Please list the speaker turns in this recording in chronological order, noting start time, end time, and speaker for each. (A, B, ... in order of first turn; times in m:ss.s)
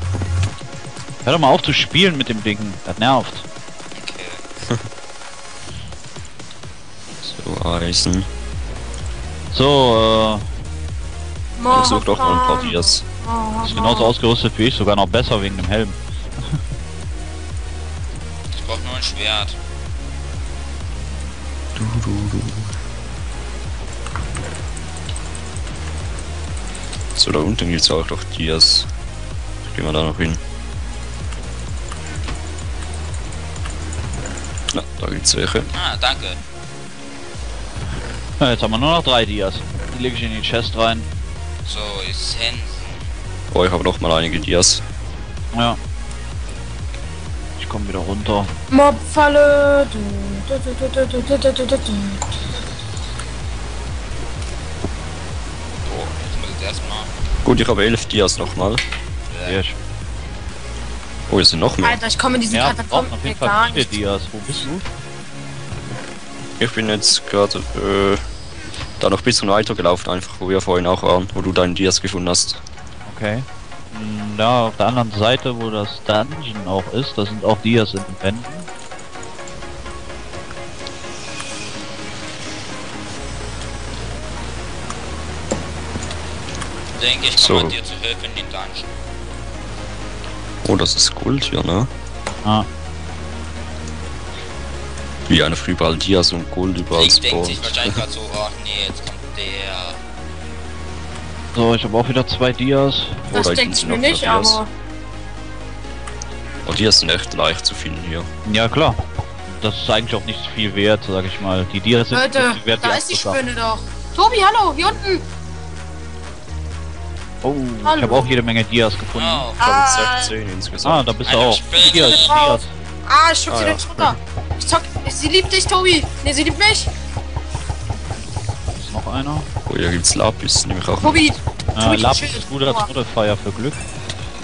0:01.2-0:03.4 A
0:04.0-0:04.4 B
0:07.2-0:08.3 C
0:09.5-0:10.5 A
0:11.6-0:14.1 D
0:11.7-0:13.0 C
0:13.6-0:16.0 A
0:18.5-0:19.6 B
0:21.8-0:22.7 C
0:27.1-0:28.9 C
0:29.6-0:30.4 C
0:34.7-0:35.7 C
0:35.7-0:36.4 B
0:38.4-0:41.1 A
0:41.6-0:43.0 B
0:43.5-0:44.8 C
0:45.5-0:45.8 A
0:47.6-0:48.5 A
0:48.7-0:52.2 D
0:55.8-0:57.1 B
0:57.4-0:58.8 C
0:59.3-0:59.6 B
0:59.4-0:59.8 A
1:01.3-1:02.0 C
1:01.8-1:03.9 D
1:02.5-1:04.8 A
1:06.6-1:08.2 C
1:09.0-1:12.6 C
1:13.0-1:18.7 A
1:26.9-1:28.9 B
1:27.4-1:27.7 C
1:30.6-1:31.9 C
1:35.3-1:38.0 C
1:36.9-1:40.0 B
1:41.5-1:43.3 A
1:43.3-1:44.6 C
1:43.3-1:44.7 D
1:46.6-1:48.3 C
1:48.4-1:53.4 A
1:52.1-1:55.2 D
1:57.4-1:59.5 A
1:57.8-1:58.4 D
1:59.1-1:59.6 B
1:59.6-2:00.3 D
1:59.6-2:01.1 C
2:00.8-2:02.7 A
2:01.2-2:02.3 B
2:01.8-2:06.9 D
2:03.5-2:04.2 C
2:08.7-2:09.5 A
2:09.6-2:11.3 C
2:11.0-2:12.9 D
2:11.8-2:13.8 A